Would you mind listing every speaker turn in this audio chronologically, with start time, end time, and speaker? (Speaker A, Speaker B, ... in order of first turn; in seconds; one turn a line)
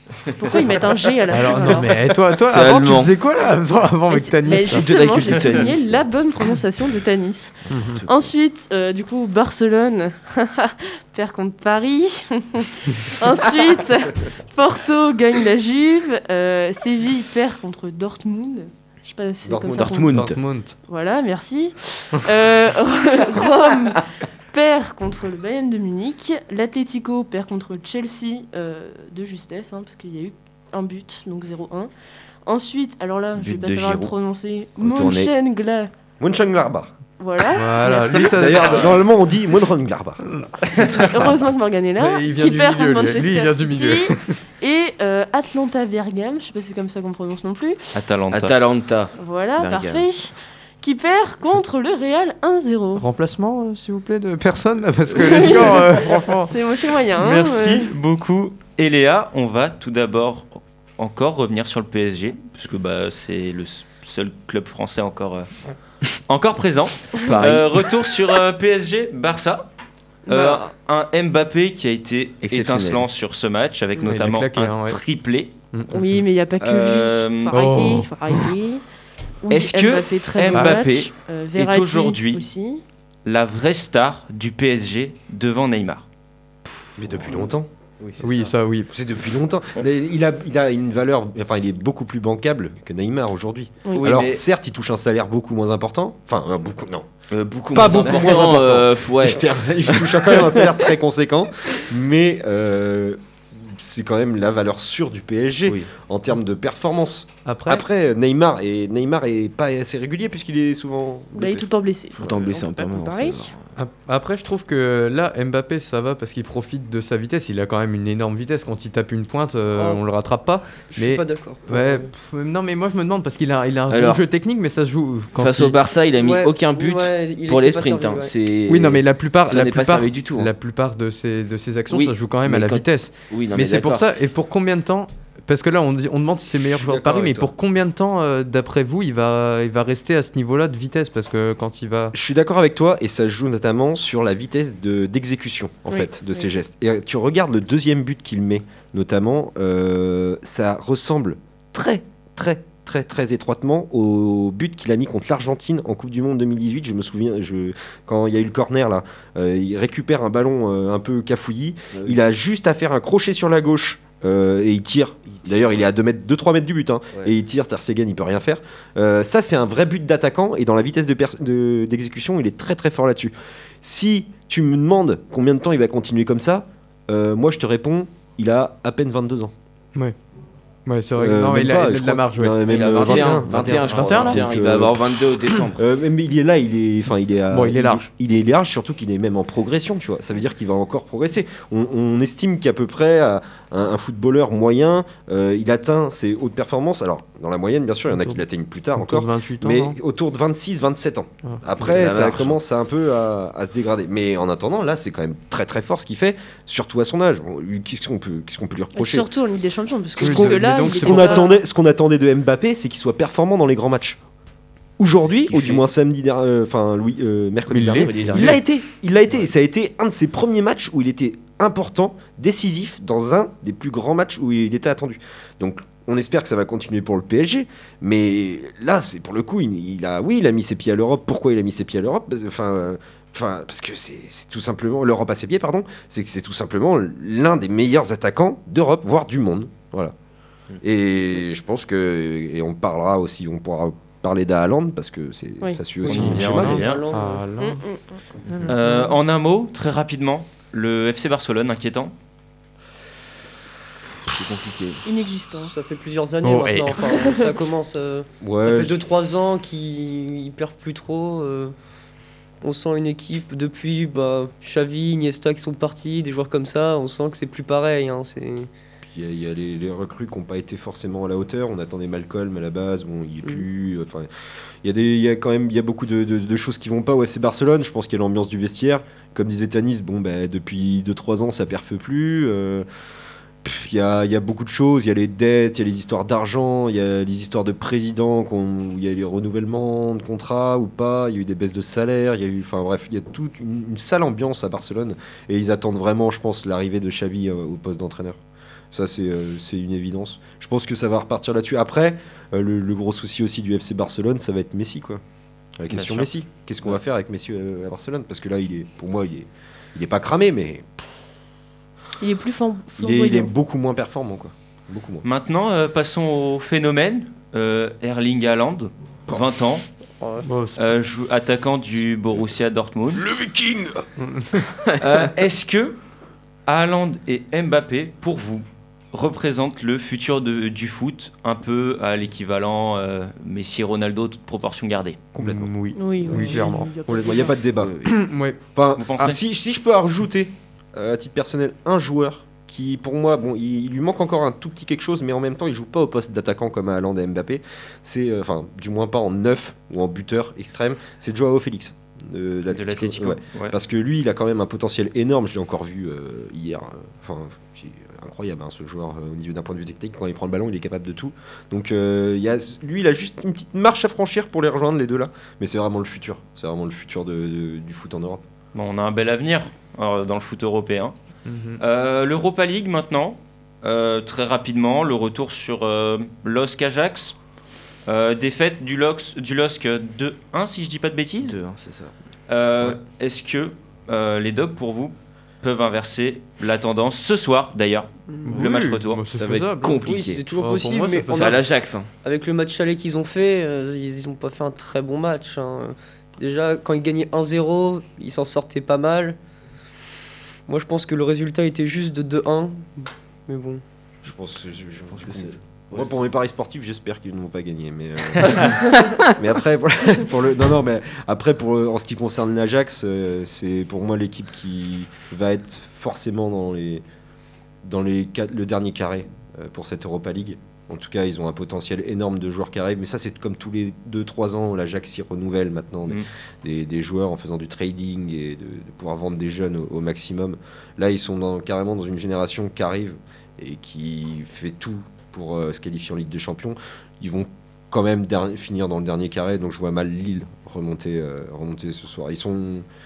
Speaker A: 0.3-1.9
Speaker B: 1.3-4.9
Speaker C: 2.4-3.1
Speaker A: 4.1-20.2
Speaker C: 4.6-6.1
Speaker B: 7.7-8.0
Speaker D: 19.4-20.0
Speaker C: 19.7-20.4
Speaker B: 20.1-20.8
Speaker A: 20.9-31.9
Speaker A: 32.5-35.9
Speaker C: 33.4-34.1
Speaker C: 34.8-35.3
Speaker D: 36.2-36.9
Speaker A: 37.2-38.4
Speaker B: 37.5-38.8
Speaker D: 38.1-40.2
Speaker E: 38.6-38.9
Speaker E: 40.7-41.1
Speaker A: 40.9-47.8
Speaker B: 42.0-44.4
Speaker E: 47.9-48.6
Speaker C: 48.3-50.1
Speaker A: 49.2-53.1
Speaker B: 53.0-56.5
Speaker A: 55.1-57.9
Speaker E: 57.2-65.5
Speaker E: 66.3-69.7
Speaker C: 67.2-67.9
Speaker A: 70.3-70.7
Speaker E: 70.3-75.5
Speaker C: 72.4-73.1
Speaker B: 74.0-75.0
Speaker B: 75.7-76.2
Speaker A: 75.9-78.8
Speaker E: 76.6-78.0
Speaker B: 77.5-78.5
Speaker A: 79.4-82.8
Speaker E: 79.5-82.4
Speaker B: 80.5-80.8
Speaker E: 83.2-86.0
Speaker D: 87.0-87.7
Speaker C: 88.0-88.5
Speaker B: 88.2-88.9
Speaker D: 88.9-97.1
Speaker A: 93.8-94.1
Speaker C: 94.0-94.4
Speaker C: 97.3-100.8
Speaker D: 97.7-111.7
Speaker B: 107.5-107.8
Speaker A: 111.3-113.5
Speaker C: 112.2-113.7
Speaker B: 113.8-125.8
Speaker F: 119.7-120.0
Speaker F: 120.9-122.1
Speaker C: 123.9-124.2
Speaker C: 125.4-130.5
Speaker F: 126.2-128.3
Speaker B: 128.7-142.2
Speaker C: 131.9-134.1
Speaker D: 136.5-137.5
Speaker D: 142.1-179.5
Speaker A: 145.9-146.5
Speaker C: 161.9-162.2
Speaker C: 165.3-165.8
Speaker B: 180.9-184.5
Speaker D: 181.2-209.3
Speaker C: 182.6-185.8
Speaker B: 187.5-188.1
Speaker B: 199.0-200.0
Speaker C: 201.8-202.6
Speaker A: 208.9-211.5
Speaker B: 210.2-211.5
Speaker D: 210.2-214.2
Speaker D: 215.0-240.1
Speaker C: 215.2-215.9
Speaker B: 217.7-218.6
Speaker C: 217.9-218.6
Speaker D: 240.8-246.9
Speaker F: 246.1-247.5
Speaker E: 246.1-247.1
Speaker B: 246.1-247.8
Speaker A: 247.6-248.2
Speaker B: 248.5-249.2
Speaker E: 248.7-252.1
Speaker C: 254.3-255.0
Speaker A: 255.1-255.7
Speaker F: 255.6-261.7
Speaker B: 256.4-257.0
Speaker A: 257.0-257.4
Speaker D: 258.4-259.0
Speaker F: 262.6-268.7
Speaker D: 269.0-274.3
Speaker D: 274.8-282.9
Speaker D: 283.6-298.4
Speaker D: 298.9-305.2
Speaker D: 305.8-310.9
Speaker E: 305.9-306.3
Speaker A: 312.2-313.5
Speaker D: 313.0-315.2
Speaker E: 315.2-319.9
Speaker B: 320.4-320.8
Speaker E: 320.8-323.3
Speaker D: 323.1-324.1
Speaker B: 324.2-324.6
Speaker C: 324.9-325.3
Speaker E: 325.0-326.0
Speaker E: 326.7-335.2
Speaker D: 335.4-335.7
Speaker B: 335.4-336.9
Speaker A: 335.9-337.6
Speaker D: 337.1-338.0
Speaker C: 337.8-338.1
Speaker B: 338.1-338.6
Speaker D: 338.8-368.4
Speaker E: 339.0-339.4
Speaker E: 352.7-353.8
Speaker E: 368.7-371.1
Speaker B: 371.5-371.8
Speaker E: 371.8-377.4
Speaker E: 378.1-381.6
Speaker C: 381.4-382.1
Speaker E: 382.5-389.2
Speaker F: 388.4-388.6
Speaker B: 388.4-390.0
Speaker C: 389.4-390.4
Speaker F: 390.0-391.7
Speaker B: 390.6-391.6
Speaker C: 391.3-392.1
Speaker F: 392.2-399.4
Speaker F: 400.7-403.8
Speaker D: 404.2-417.0
Speaker C: 405.2-406.2
Speaker C: 408.5-409.3
Speaker D: 417.8-442.9